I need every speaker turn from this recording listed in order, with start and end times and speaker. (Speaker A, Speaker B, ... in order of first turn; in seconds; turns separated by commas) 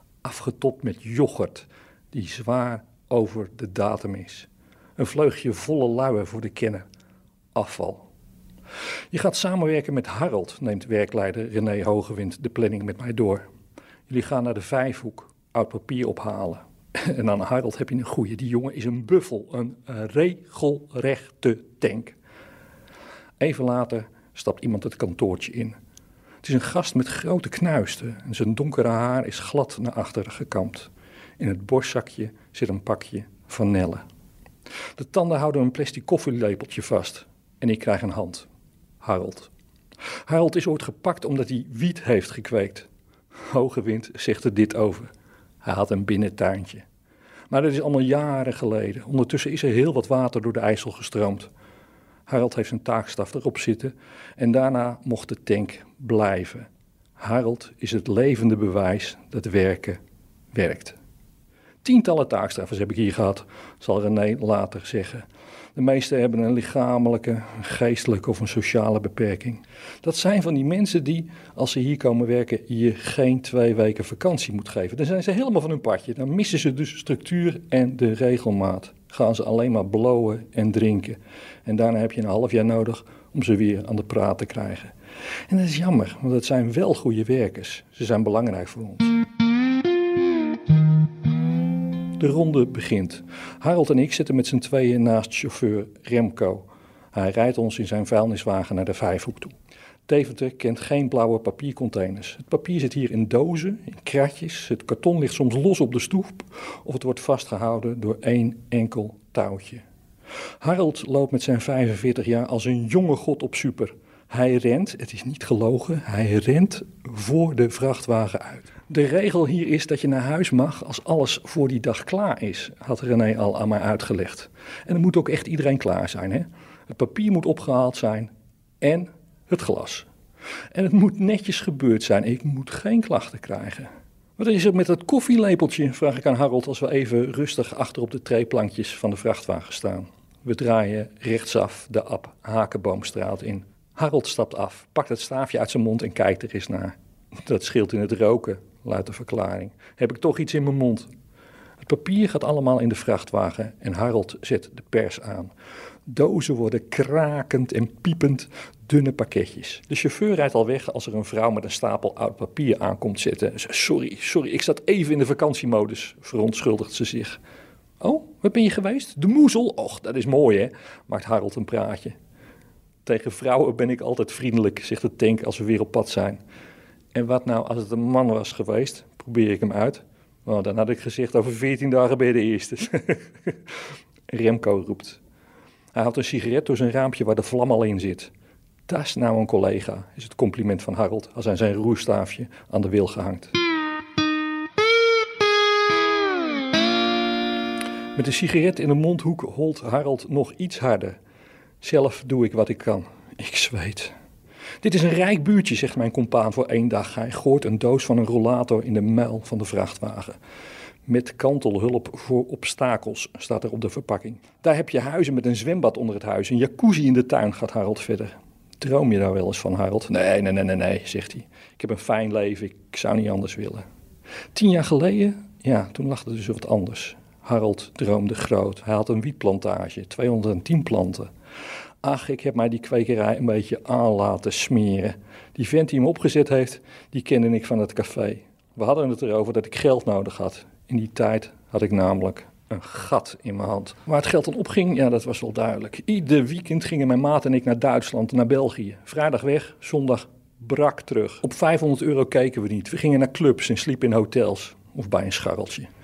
Speaker A: 0.2-6.8, Speaker A: 7.5-8.1, Speaker A: 9.1-13.4, Speaker A: 14.1-22.2, Speaker A: 23.4-25.8, Speaker A: 26.4-34.0, Speaker A: 34.9-38.5, Speaker A: 39.0-39.5, Speaker A: 40.2-42.9, Speaker A: 43.5-45.1, Speaker A: 45.6-46.8, Speaker A: 47.5-51.5, Speaker A: 52.3-60.0, Speaker A: 60.5-61.0, Speaker A: 61.8-84.9, Speaker A: 85.5-89.2, Speaker A: 92.2-99.5, Speaker A: 100.1-109.8, Speaker A: 110.6-130.1, Speaker A: 130.7-151.1, Speaker A: 151.8-155.5, Speaker A: 156.1-167.4, Speaker A: 168.0-172.2, Speaker A: 173.0-176.4, Speaker A: 177.1-183.6, Speaker A: 184.3-185.2, Speaker A: 185.9-188.3, Speaker A: 188.9-193.5, Speaker A: 198.1-201.2, Speaker A: 201.8-204.1, Speaker A: 204.8-210.4, Speaker A: 211.1-223.8, Speaker A: 224.5-231.3, Speaker A: 232.0-255.9